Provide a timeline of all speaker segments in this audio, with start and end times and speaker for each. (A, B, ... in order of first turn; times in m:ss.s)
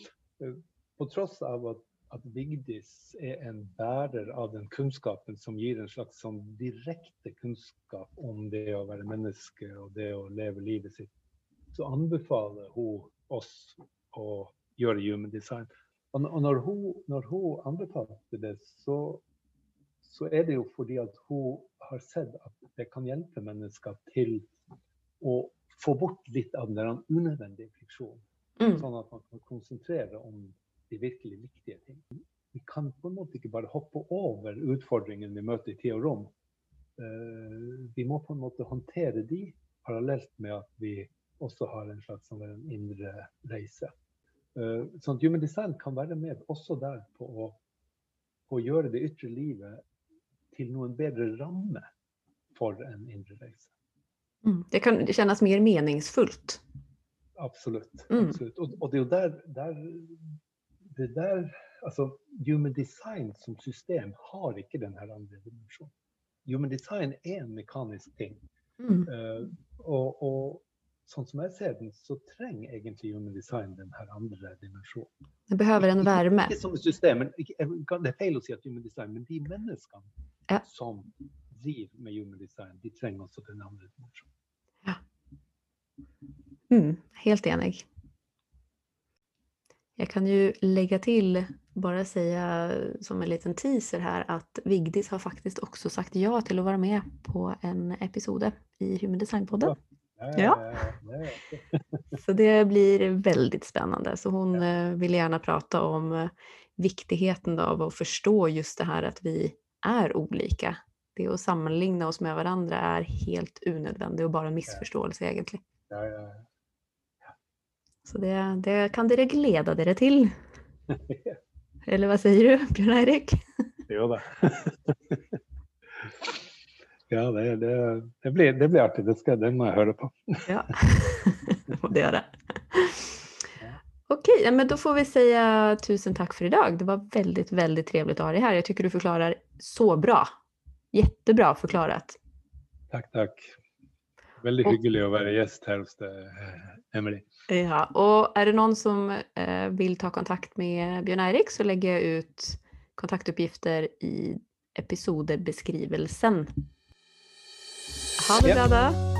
0:00.4-0:11.1 A
0:11.7-0:19.2 A
0:20.0-0:24.5 A
0:25.2-0:28.2 A
0:28.6-0:28.8 B
0:28.8-0:36.3 A
0:37.0-0:43.9 A
0:44.6-0:47.6 A
0:48.5-0:49.8 A
0:50.5-0:51.9 A
0:52.5-0:53.7 A
0:54.4-0:56.6 B
0:57.4-1:00.4 A
0:58.1-0:58.4 B
1:00.9-1:05.9 A
1:06.4-1:08.4 A
1:08.8-1:09.1 B
1:09.1-1:15.1 A
1:15.5-1:16.6 B
1:15.8-1:20.1 A
1:20.6-1:24.3 A
1:26.7-1:27.9 B
1:30.0-1:39.8 B
1:39.6-1:42.0 A
1:40.4-1:40.6 B
1:42.1-1:55.6 B
1:55.9-1:56.5 A
1:58.0-2:00.3 B
2:00.9-2:01.4 A
2:01.9-2:03.4 B
2:03.9-2:05.4 A
2:06.0-2:06.4 A
2:07.1-2:10.6 A
2:10.5-2:13.2 B
2:14.1-2:20.3 B
2:20.9-2:22.2 B
2:22.9-2:23.6 A
2:24.4-2:27.3 A
2:27.5-2:36.5 B
2:38.2-2:39.0 B